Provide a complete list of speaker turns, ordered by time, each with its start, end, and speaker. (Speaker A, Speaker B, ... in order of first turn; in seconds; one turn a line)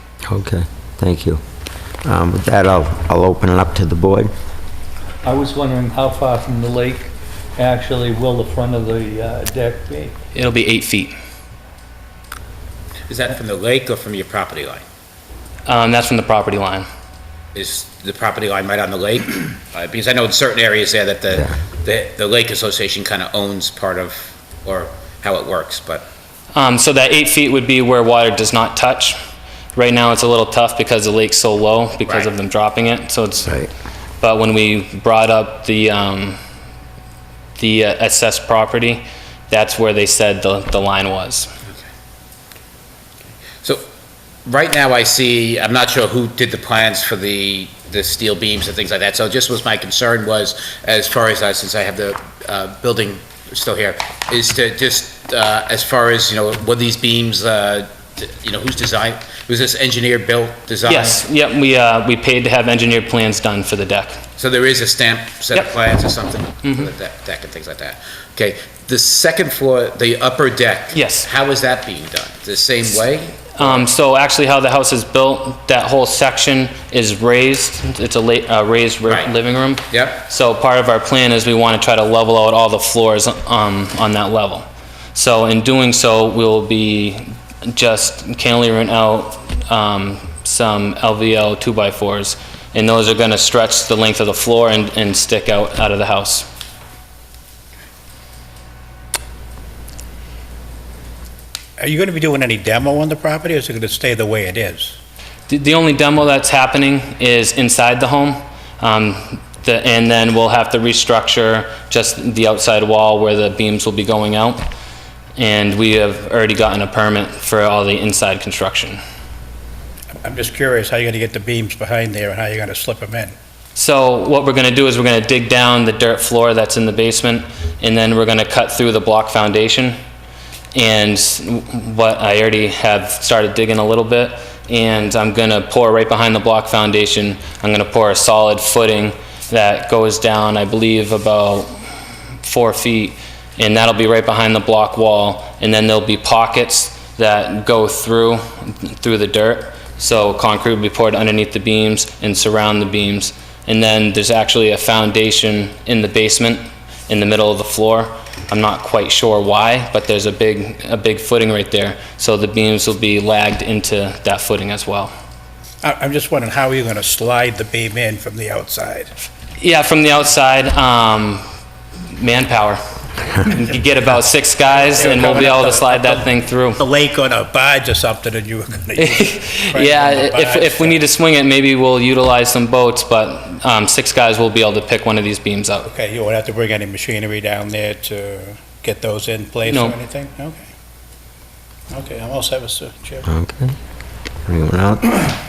Speaker A: 0.2-1.4
Speaker A: 2.0-4.3
Speaker B: 5.2-7.0
Speaker B: 7.6-10.1
Speaker C: 10.3-11.1
Speaker D: 13.1-14.8
Speaker C: 15.7-16.9
Speaker D: 17.5-26.1
Speaker C: 26.5-29.2
Speaker C: 29.7-33.6
Speaker C: 34.2-36.4
Speaker C: 37.6-41.5
Speaker D: 44.5-61.2
Speaker C: 60.9-64.2
Speaker D: 64.4-73.8
Speaker C: 66.6-66.9
Speaker C: 70.9-71.3
Speaker C: 73.5-96.5
Speaker D: 79.0-79.3
Speaker D: 79.9-80.2
Speaker E: 101.8-105.0
Speaker C: 105.5-114.7
Speaker C: 115.4-119.0
Speaker E: 120.2-123.3
Speaker C: 123.7-130.0
Speaker C: 130.7-141.7
Speaker C: 142.4-165.1
Speaker E: 165.8-169.1
Speaker C: 169.6-171.4
Speaker C: 172.1-172.8
Speaker C: 173.3-176.8
Speaker E: 174.7-176.2
Speaker E: 176.8-181.0
Speaker C: 179.0-185.9
Speaker E: 185.8-190.7
Speaker C: 189.7-189.9
Speaker E: 191.9-193.2
Speaker A: 193.2-193.7
Speaker A: 194.5-195.3